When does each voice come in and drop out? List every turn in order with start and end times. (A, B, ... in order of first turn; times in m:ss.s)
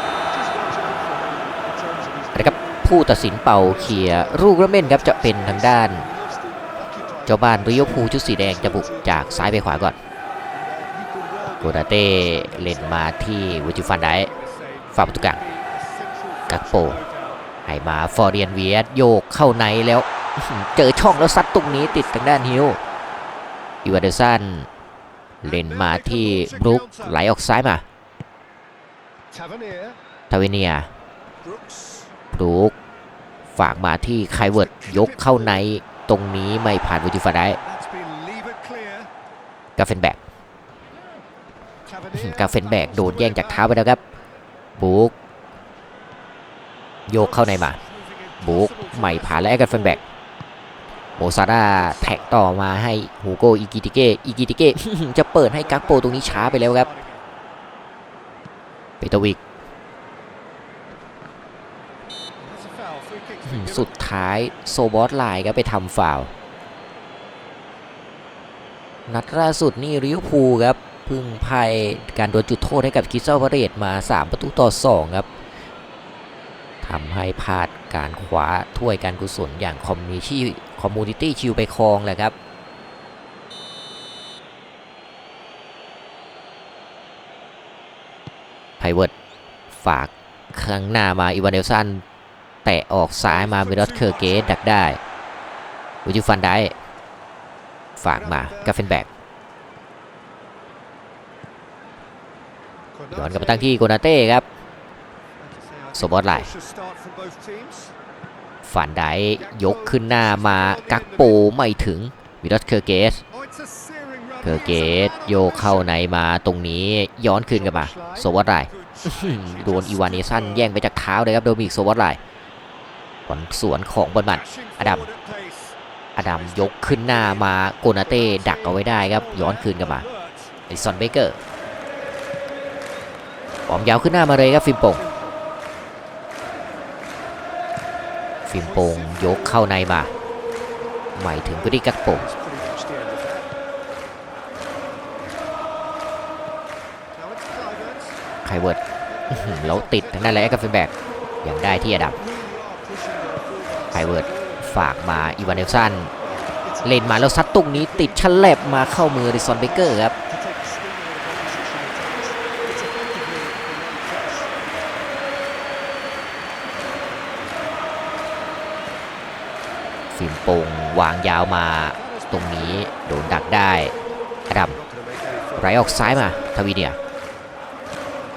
0:00.3-0:02.9 A
0:02.3-0:06.0 B
0:03.6-0:09.8 A
0:07.2-0:10.0 B
0:10.5-0:17.4 A
0:11.6-0:14.3 B
0:14.9-0:15.4 B
0:16.5-0:17.0 B
0:17.6-0:22.8 B
0:20.7-0:22.8 A
0:23.8-0:24.7 B
0:25.4-0:27.8 B
0:25.4-0:27.2 A
0:29.3-0:30.0 A
0:30.3-0:30.9 B
0:31.4-0:32.1 A
0:32.3-0:32.7 B
0:33.6-0:37.6 B
0:34.3-0:35.6 A
0:37.5-0:39.1 A
0:39.8-0:40.2 B
0:41.8-0:43.8 A
0:42.1-0:44.0 B
0:44.8-0:45.1 B
0:47.1-0:47.8 B
0:47.1-0:50.0 A
0:48.4-0:50.0 B
0:51.2-0:56.9 B
0:51.6-0:52.4 A
0:55.6-0:57.2 A
0:59.0-0:59.4 B
1:02.4-1:04.2 A
1:03.5-1:06.3 B
1:09.1-1:15.3 B
1:16.8-1:22.3 B
1:28.8-1:29.1 B
1:29.8-1:32.0 B
1:32.6-1:35.0 B
1:33.2-1:34.6 A
1:36.0-1:36.7 B
1:38.0-1:39.1 B
1:38.1-1:38.9 A
1:42.9-1:43.8 A
1:43.1-1:44.4 B
1:45.4-1:47.9 A
1:45.9-1:46.5 B
1:48.6-1:53.2 B
1:49.4-1:51.5 A
1:53.3-1:55.9 A
1:54.4-2:02.2 B
1:57.5-2:00.8 A
2:03.3-2:05.0 B
2:04.2-2:10.6 A
2:06.2-2:10.0 B
2:10.7-2:11.4 B
2:13.7-2:15.0 B
2:14.9-2:15.4 A
2:18.5-2:20.1 B
2:18.5-2:19.8 A
2:21.2-2:22.2 B
2:21.4-2:23.5 A
2:27.1-2:28.2 A
2:28.4-2:28.8 B
2:28.8-2:30.6 A
2:29.3-2:30.9 B
2:31.4-2:32.2 B
2:32.0-2:44.5 A
2:33.9-2:36.1 B
2:36.8-2:40.1 B
2:50.1-2:53.9 B
2:51.9-2:53.1 A
2:54.5-2:54.8 B
2:54.6-2:56.6 A
2:55.6-2:57.0 B